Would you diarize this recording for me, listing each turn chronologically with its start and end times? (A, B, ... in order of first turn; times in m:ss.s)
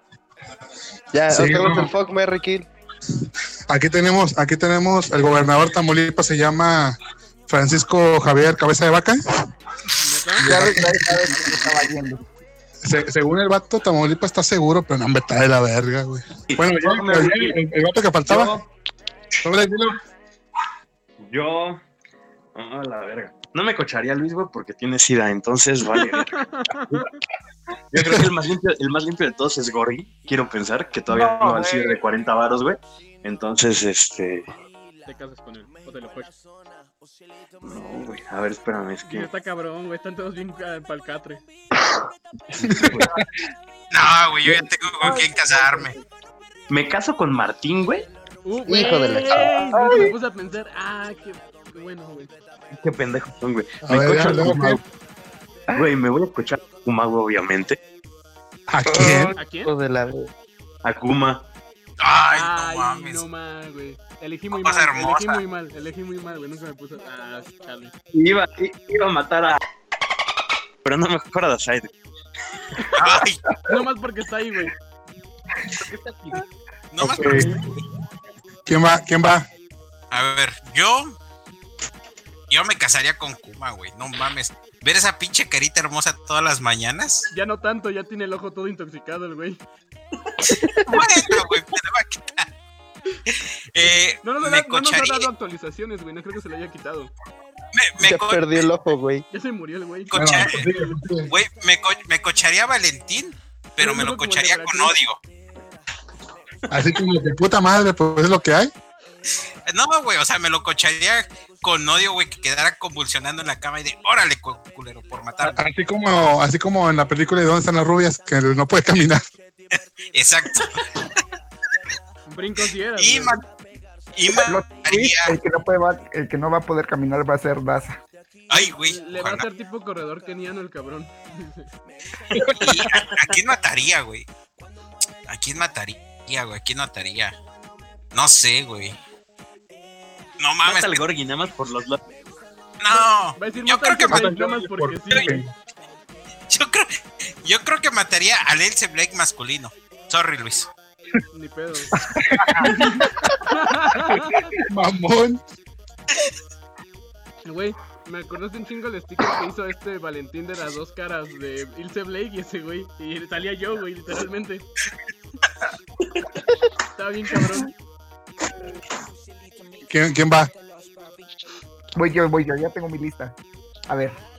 0:01.1-0:02.7 A
0:01.3-0:01.9 B
0:03.7-0:07.0 B
0:07.5-0:09.2 B
0:10.0-0:11.9 C
0:10.4-0:11.4 B
0:10.4-0:12.2 D
0:12.8-0:18.6 B
0:16.5-0:17.6 E
0:18.2-0:18.6 E
0:19.4-0:20.0 B
0:21.2-0:21.8 E
0:22.5-0:27.0 E
0:26.0-0:27.2 C
0:27.9-0:34.5 E
0:28.0-0:28.2 B
0:31.1-0:32.0 D
0:35.0-0:36.4 C
0:37.6-0:39.3 E
0:39.0-0:41.4 C
0:42.5-0:43.2 E
0:42.6-0:43.2 B
0:43.9-0:45.9 F
0:44.4-0:45.2 E
0:46.7-0:48.1 E
0:48.4-0:52.3 C
0:48.7-0:50.1 A
0:52.7-0:54.8 E
0:53.8-0:54.8 B
0:55.7-0:57.8 E
0:58.7-0:59.3 B
0:58.8-1:00.3 A
0:59.4-0:59.7 C
1:00.8-1:01.4 E
1:02.0-1:03.2 F
1:02.3-1:07.9 C
1:04.5-1:05.4 F
1:08.1-1:09.6 E
1:10.8-1:12.0 E
1:13.0-1:13.4 F
1:13.7-1:14.7 C
1:15.8-1:16.4 E
1:16.9-1:17.5 F
1:17.0-1:17.6 B
1:18.6-1:19.5 B
1:20.1-1:21.2 F
1:22.5-1:27.3 F
1:27.3-1:29.6 C
1:30.2-1:31.0 E
1:30.6-1:30.9 A
1:30.8-1:32.5 F
1:33.3-1:35.3 F
1:34.2-1:37.1 C
1:37.7-1:38.7 F
1:38.0-1:39.2 A
1:39.3-1:40.1 C
1:40.1-1:40.7 F
1:40.1-1:41.3 B
1:41.3-1:45.2 F
1:43.8-1:45.0 C
1:46.7-1:48.7 B
1:49.7-1:55.6 F
1:55.4-1:59.2 B
2:00.1-2:01.0 F
2:02.3-2:03.4 C
2:03.0-2:03.4 F
2:04.1-2:05.3 F
2:04.4-2:08.0 D
2:08.5-2:09.4 F
2:08.5-2:11.7 C
2:12.3-2:12.8 B
2:12.6-2:14.2 F
2:12.8-2:13.4 E
2:15.3-2:17.4 F
2:18.1-2:19.0 F
2:20.4-2:21.0 F
2:20.6-2:22.0 E
2:22.8-2:24.3 F
2:22.9-2:25.4 C
2:24.1-2:25.5 B
2:26.5-2:30.7 F
2:31.3-2:31.9 C
2:32.0-2:33.3 B
2:32.6-2:34.5 C
2:34.0-2:35.4 B
2:37.4-2:44.7 C
2:46.9-2:47.7 C
2:49.9-2:50.5 B
2:52.0-2:53.4 D
2:53.9-2:54.2 D